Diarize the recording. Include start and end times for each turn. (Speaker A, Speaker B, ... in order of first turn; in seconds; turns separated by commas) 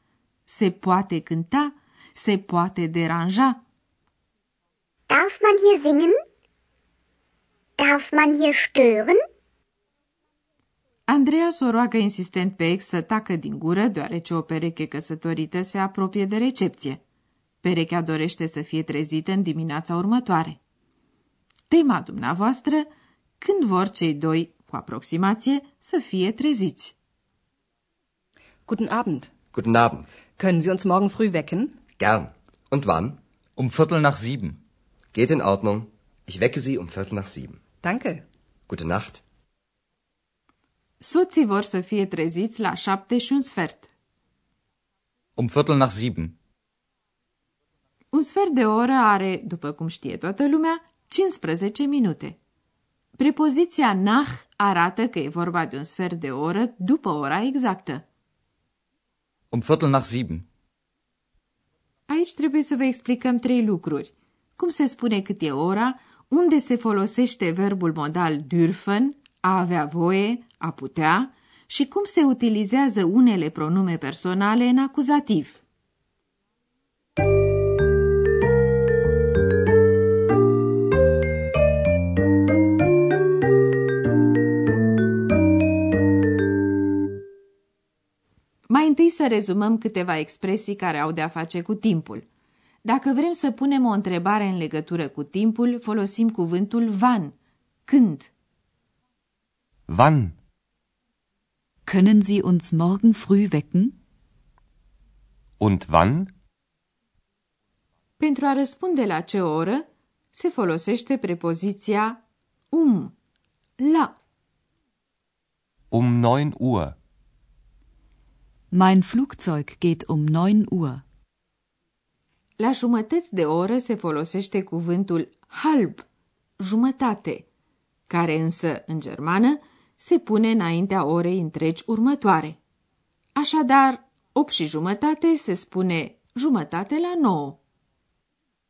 Speaker A: 0.5-3.6, Speaker B: 5.1-6.2, Speaker B: 7.8-9.2, Speaker A: 11.1-17.0, Speaker A: 17.6-20.6, Speaker A: 21.7-22.9, Speaker A: 23.4-26.9, Speaker C: 28.7-29.4, Speaker D: 29.5-30.1, Speaker C: 30.3-31.8, Speaker D: 32.0-33.2, Speaker E: 33.6-34.6, Speaker D: 35.1-37.6, Speaker C: 37.8-38.2, Speaker D: 38.7-39.2, Speaker A: 41.0-43.9, Speaker E: 45.4-46.4, Speaker A: 48.1-52.4, Speaker A: 53.2-58.0, Speaker E: 59.5-60.5, Speaker A: 62.1-75.6, Speaker A: 88.7-92.2, Speaker A: 92.8-97.4, Speaker A: 97.9-98.3, Speaker F: 99.9-100.3, Speaker G: 101.9-104.0, Speaker F: 105.6-106.3, Speaker A: 108.2-112.2, Speaker A: 112.7-113.1, Speaker A: 113.8-114.1, Speaker F: 115.9-117.0, Speaker G: 118.7-121.0, Speaker A: 122.6-126.1, Speaker A: 126.6-127.5, Speaker A: 128.1-132.6, Speaker A: 133.3-137.6